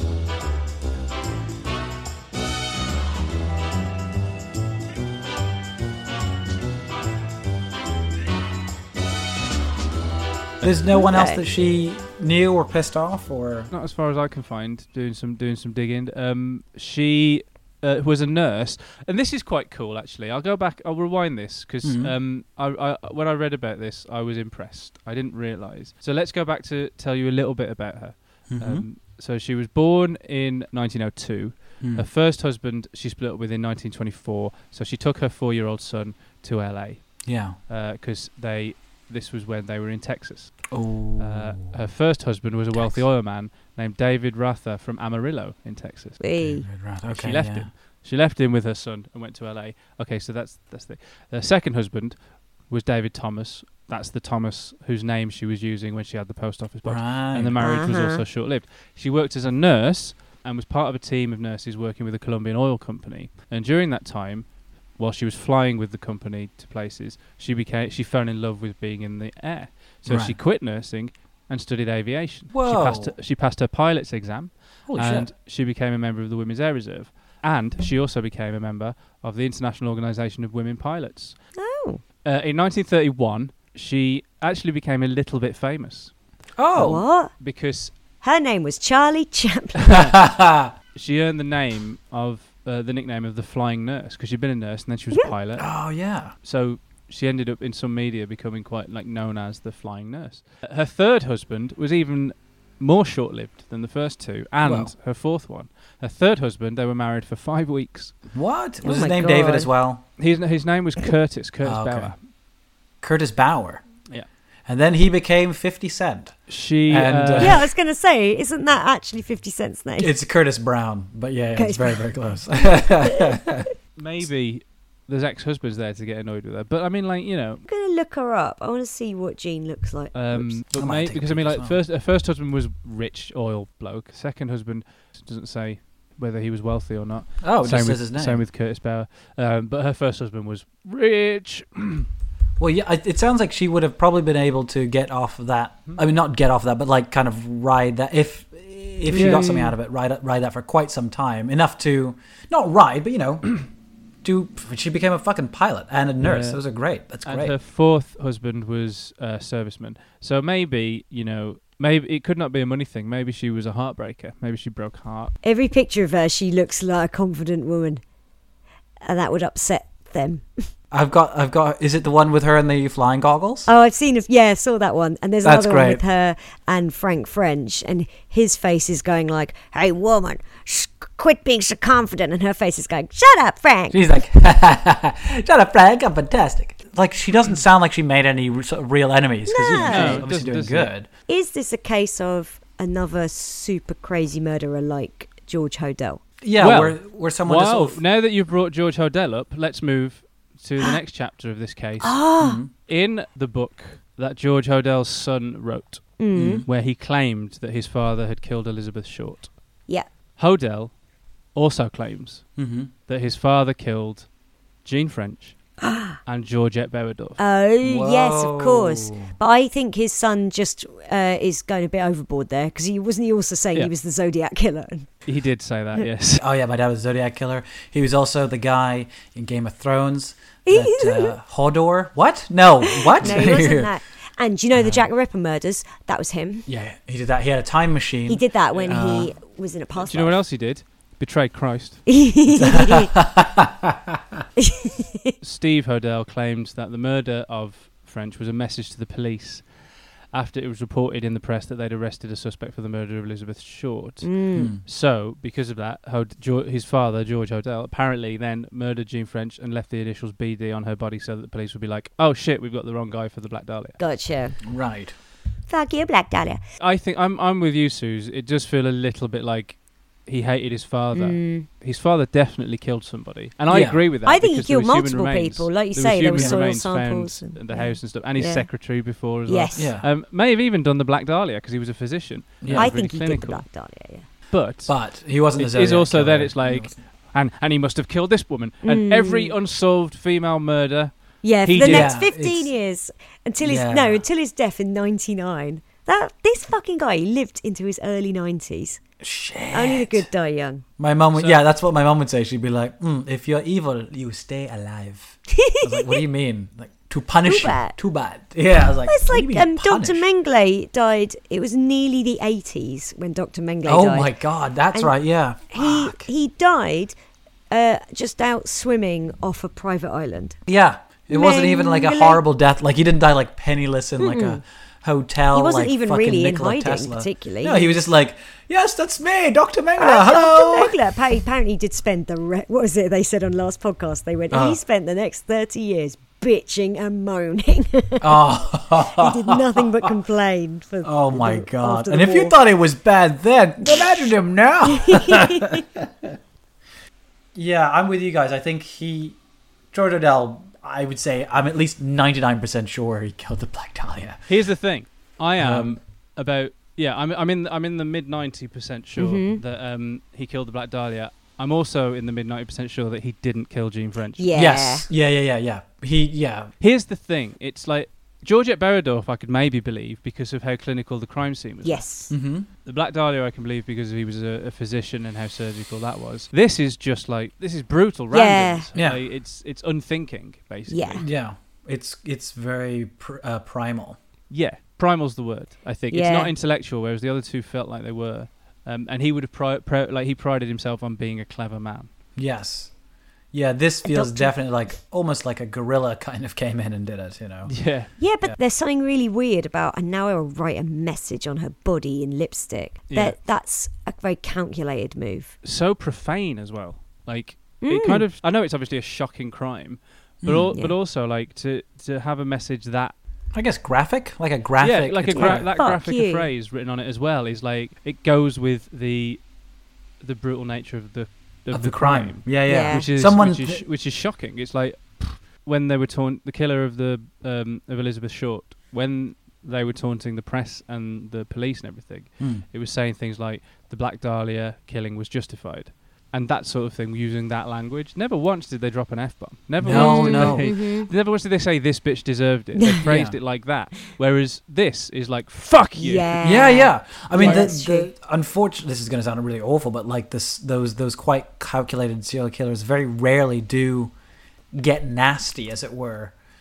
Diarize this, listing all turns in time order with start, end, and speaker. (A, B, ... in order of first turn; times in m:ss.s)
0:10.6-0:13.7 A
0:10.9-0:11.4 B
0:13.7-0:40.7 C
0:21.8-0:22.1 A
0:28.5-0:28.8 A
0:31.8-0:32.1 A
0:37.2-0:37.6 A
0:40.7-0:41.7 A
0:41.2-0:46.2 C
0:42.7-0:43.0 A
0:46.2-0:46.6 B
0:46.4-0:47.7 A
0:47.1-1:21.4 C
0:56.8-0:57.9 A
0:57.6-0:58.2 B
1:10.1-1:10.4 A
1:12.5-1:13.1 A
1:14.9-1:15.3 A
1:21.6-1:22.0 B
1:22.2-1:26.1 C
1:26.6-1:27.0 A
1:26.7-1:27.3 B
1:27.3-1:27.9 C
1:28.2-1:29.9 B
1:29.8-1:30.2 C
1:29.9-1:30.7 A
1:30.9-1:35.7 C
1:35.6-1:36.3 A
1:36.4-1:48.2 C
1:44.6-1:44.9 A
1:48.3-1:50.0 A
1:48.8-1:49.7 B
1:50.2-1:52.2 C
1:51.6-1:52.1 A
1:53.0-1:53.8 A
1:54.6-1:57.6 A
1:56.5-1:57.6 C
1:57.4-2:00.1 B
2:00.0-2:03.7 A
2:01.6-2:02.0 B
2:04.0-2:07.6 C
2:07.6-2:10.5 B
2:10.1-2:22.1 C
2:10.7-2:11.8 A
2:17.4-2:18.4 A
2:22.6-2:33.5 A
2:29.1-2:29.8 C
2:34.2-2:37.5 A
2:36.2-2:36.6 C
2:37.2-2:45.3 C
2:45.4-2:48.0 B
2:49.0-2:50.6 B
2:50.9-2:53.7 A
2:53.6-3:04.2 B
2:55.4-2:56.0 A
3:03.9-3:11.1 A
3:09.5-3:10.2 B
3:09.8-3:10.9 C
3:11.3-3:16.2 B
3:16.4-3:18.0 A
3:16.6-3:22.2 C
3:22.0-3:22.6 B
3:22.4-3:22.7 A
3:22.8-3:29.6 C
3:26.2-3:26.6 B
3:26.3-3:26.7 A
3:30.4-3:30.9 C
3:31.5-3:32.5 C
3:32.6-3:32.9 A
3:33.1-3:34.3 C
3:34.8-3:35.6 C
3:35.8-3:36.2 B
3:36.2-3:37.4 C
3:37.4-3:45.1 B
3:37.8-3:39.3 A
3:45.2-3:46.4 C
3:46.4-3:53.9 A
3:50.6-3:51.3 B
3:52.8-3:56.7 B
3:54.8-3:55.0 A
3:56.6-3:59.3 A
3:58.3-4:00.4 B
3:58.7-3:59.0 C
4:00.0-4:02.2 C
4:02.1-4:03.1 B
4:02.5-4:04.4 A
4:04.6-4:05.3 B
4:05.4-4:09.7 C
4:10.3-4:24.0 C
4:14.2-4:14.7 B
4:14.6-4:14.8 A
4:24.0-4:24.6 B
4:24.6-4:25.1 A
4:25.7-4:26.6 B
4:26.8-4:43.6 C
4:31.1-4:31.7 B
4:33.7-4:34.0 A
4:34.2-4:38.7 B
4:36.3-4:36.6 A
4:39.4-4:39.9 B
4:39.8-4:40.1 A
4:42.6-4:42.9 A
4:42.7-4:44.2 B
4:44.5-4:45.0 C
4:44.9-4:47.0 A
4:45.6-4:51.1 C
4:48.8-4:49.5 B
4:51.4-4:59.0 B
4:51.6-4:52.1 C
4:51.8-4:52.7 A
4:53.6-4:54.2 A
4:59.2-5:00.3 A
4:59.7-5:00.8 B
5:01.0-5:10.2 A
5:01.3-5:01.6 C
5:05.6-5:06.2 B
5:07.4-5:08.0 B
5:09.0-5:14.4 B
5:13.8-5:16.3 A
5:15.7-5:17.1 B
5:17.7-5:20.6 B
5:20.6-5:31.0 A
5:21.3-5:22.4 B
5:24.2-5:24.6 B
5:25.5-5:28.0 B
5:30.0-5:38.4 B
5:34.5-5:34.8 A
5:38.2-5:40.1 A
5:39.0-5:42.6 B
5:41.0-5:46.4 A
5:44.8-5:45.8 B
5:47.5-5:49.4 A
5:49.9-5:54.4 A
5:54.5-6:04.5 C
5:55.6-5:56.0 A
5:59.2-5:59.6 B
6:04.4-6:05.1 B
6:04.5-6:06.7 A
6:06.8-6:12.1 C
6:11.8-6:12.3 B
6:12.3-6:12.7 A
6:12.8-6:21.2 C
6:18.3-6:18.9 B
6:18.9-6:19.2 A
6:20.9-6:21.2 B
6:21.2-6:24.2 A
6:24.5-6:32.1 C
6:26.1-6:26.5 B
6:32.4-6:32.9 A
6:33.5-6:37.8 A
6:34.0-6:34.5 B
6:37.7-6:38.1 C
6:38.2-6:45.5 B
6:43.1-6:43.4 C
6:45.6-6:53.1 C
6:47.8-6:48.2 B
6:50.4-6:50.7 A
6:53.5-6:55.7 A
6:54.8-6:59.4 C
6:55.3-6:56.5 B
7:00.2-7:26.4 C
7:01.7-7:03.8 A
7:02.6-7:03.0 B
7:19.8-7:20.7 A
7:19.9-7:21.1 B
7:23.0-7:23.4 A
7:25.9-7:28.1 B
7:26.4-7:34.1 A
7:27.4-7:27.7 C
7:34.7-7:36.3 A